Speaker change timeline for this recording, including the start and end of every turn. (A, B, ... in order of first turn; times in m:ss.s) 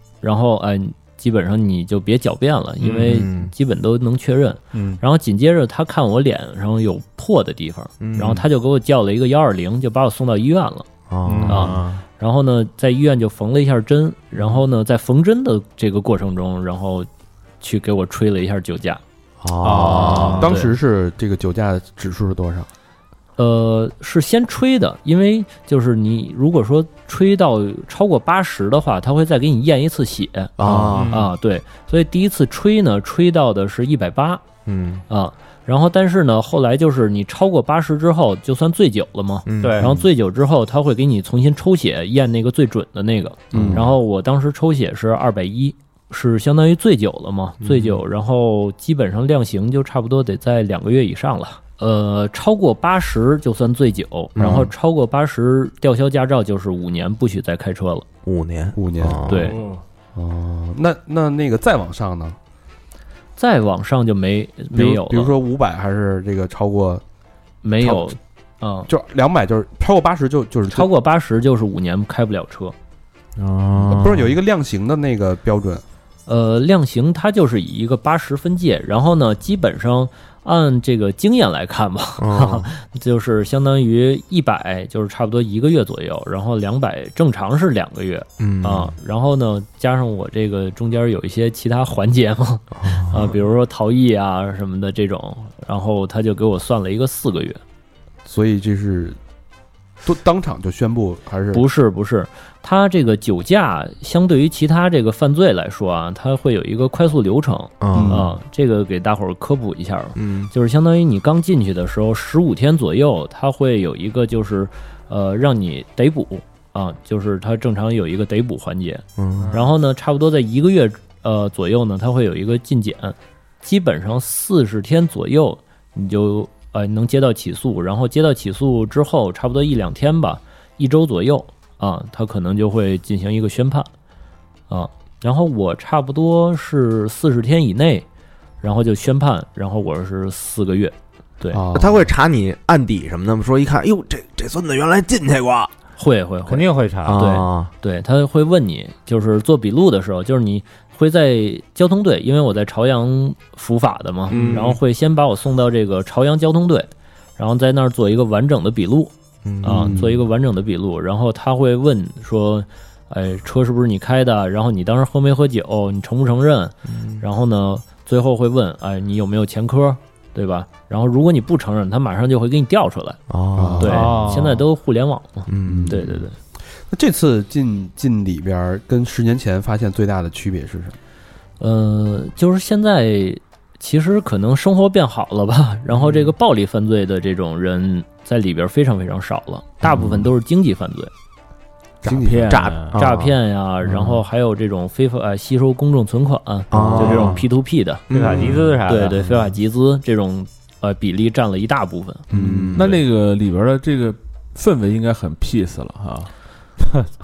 0:00.2-0:10.8 A
0:02.8-0:03.5 B
0:04.7-0:05.0 C
0:08.0-0:08.4 B
0:11.1-0:12.0 B
0:11.2-0:11.8 C
0:11.4-0:17.1 A
0:17.6-0:19.0 A
0:19.4-0:20.5 B
0:19.6-0:20.5 C
0:20.0-0:22.7 D
0:20.3-0:20.7 A
0:23.4-0:30.5 A
0:30.6-0:31.2 B
0:30.7-0:31.0 D
0:30.9-0:31.3 C
0:31.1-0:34.4 A
0:34.6-0:35.0 B
0:35.1-0:58.0 A
0:39.4-0:40.0 B
0:39.6-0:40.0 C
0:43.5-0:43.9 D
0:43.5-0:43.9 B
0:47.6-0:48.0 B
0:54.4-0:54.7 B
0:58.2-0:59.5 B
0:58.7-0:59.4 D
0:59.3-0:59.6 A
1:00.1-1:02.4 D
1:03.4-1:05.4 A
1:04.7-1:07.0 D
1:07.6-1:08.9 A
1:07.8-1:08.1 D
1:08.9-1:10.9 D
1:10.7-1:12.7 A
1:13.4-1:14.3 E
1:13.9-1:15.8 D
1:16.3-1:37.6 A
1:22.2-1:22.7 B
1:28.4-1:28.9 B
1:32.8-1:33.3 B
1:38.2-1:39.2 D
1:40.0-1:41.6 D
1:41.5-2:13.9 A
1:47.8-1:48.2 B
1:47.9-1:48.3 D
1:50.1-1:50.5 B
1:59.2-1:59.5 B
1:59.4-1:59.7 C
2:14.7-2:18.0 A
2:18.6-2:21.6 A
2:21.5-2:22.1 D
2:21.7-2:25.7 B
2:26.0-2:53.2 A
2:26.5-2:27.2 C
2:27.0-2:27.7 B
2:34.3-2:34.8 B
2:39.4-2:40.0 B
2:39.6-2:40.2 D
2:46.8-2:47.2 B
2:53.3-2:54.3 B
2:53.6-2:54.2 D
2:53.8-2:56.4 A
2:53.8-2:54.6 C
2:55.5-2:56.2 B
2:55.6-2:56.0 D
2:56.9-3:01.0 D
3:01.6-3:11.1 A
3:09.8-3:10.3 B
3:12.0-3:12.7 D
3:12.0-3:13.0 E
3:12.5-3:13.3 B
3:12.9-3:18.0 A
3:13.8-3:14.2 B
3:16.7-3:17.4 B
3:18.1-3:18.7 B
3:18.1-3:19.2 C
3:18.8-3:22.2 A
3:22.3-3:23.0 B
3:22.3-3:23.0 D
3:22.7-3:26.3 E